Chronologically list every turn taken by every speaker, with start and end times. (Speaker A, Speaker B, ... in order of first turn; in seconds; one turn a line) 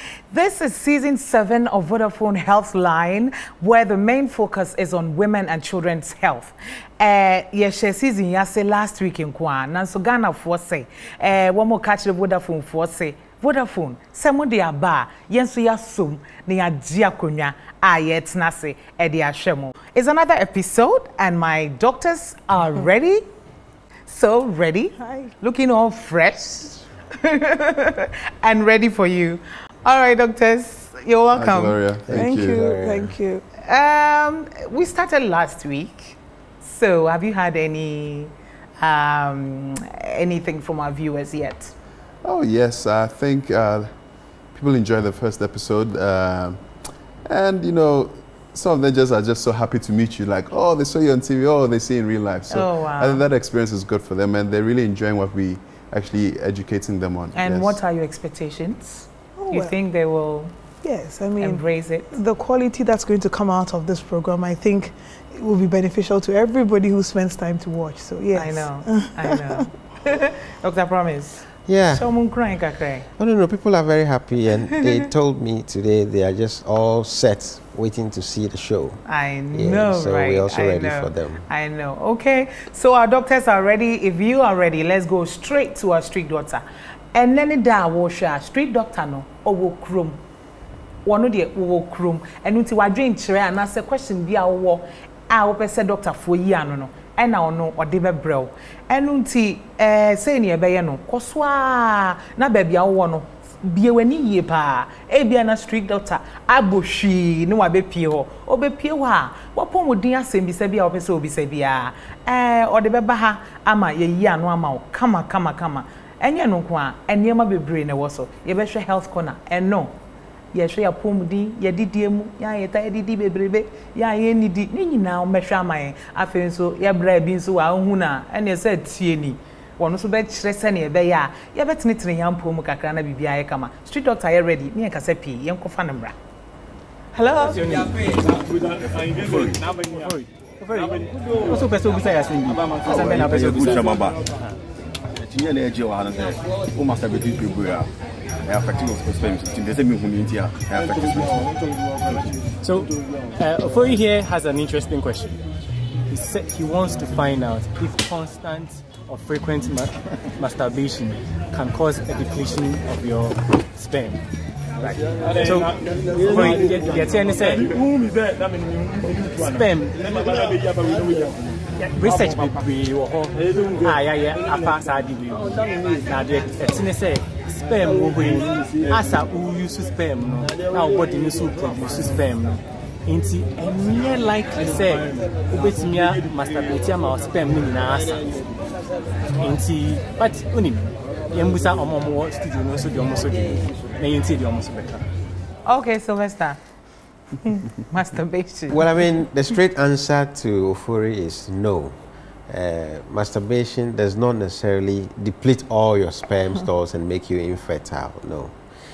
Speaker A: 0.3-23.2
Speaker A: 24.1-31.8
Speaker B: 25.0-25.3
Speaker C: 31.3-32.6
Speaker D: 32.1-33.1
Speaker B: 32.1-33.4
Speaker A: 33.6-41.7
Speaker C: 42.2-43.9
Speaker C: 44.5-46.6
Speaker C: 47.2-57.8
Speaker A: 52.5-53.2
Speaker A: 57.3-60.5
Speaker B: 59.4-59.7
Speaker B: 60.8-69.6
Speaker A: 61.4-62.1
Speaker A: 68.3-73.1
Speaker D: 71.7-72.1
Speaker D: 73.2-79.0
Speaker A: 79.1-90.2
Speaker D: 79.5-81.4
Speaker A: 91.0-119.9
Speaker A: 120.5-136.1
Speaker A: 137.1-137.8
Speaker E: 137.4-138.0
Speaker E: 139.0-144.5
Speaker F: 142.8-144.2
Speaker F: 145.2-147.9
Speaker F: 148.4-151.6
Speaker E: 152.6-155.4
Speaker E: 156.1-164.2
Speaker E: 164.8-167.7
Speaker E: 169.2-170.1
Speaker E: 171.8-188.2
Speaker E: 189.4-195.0
Speaker A: 195.7-196.6
Speaker A: 197.4-198.8
Speaker D: 198.7-201.9
Speaker D: 202.5-208.6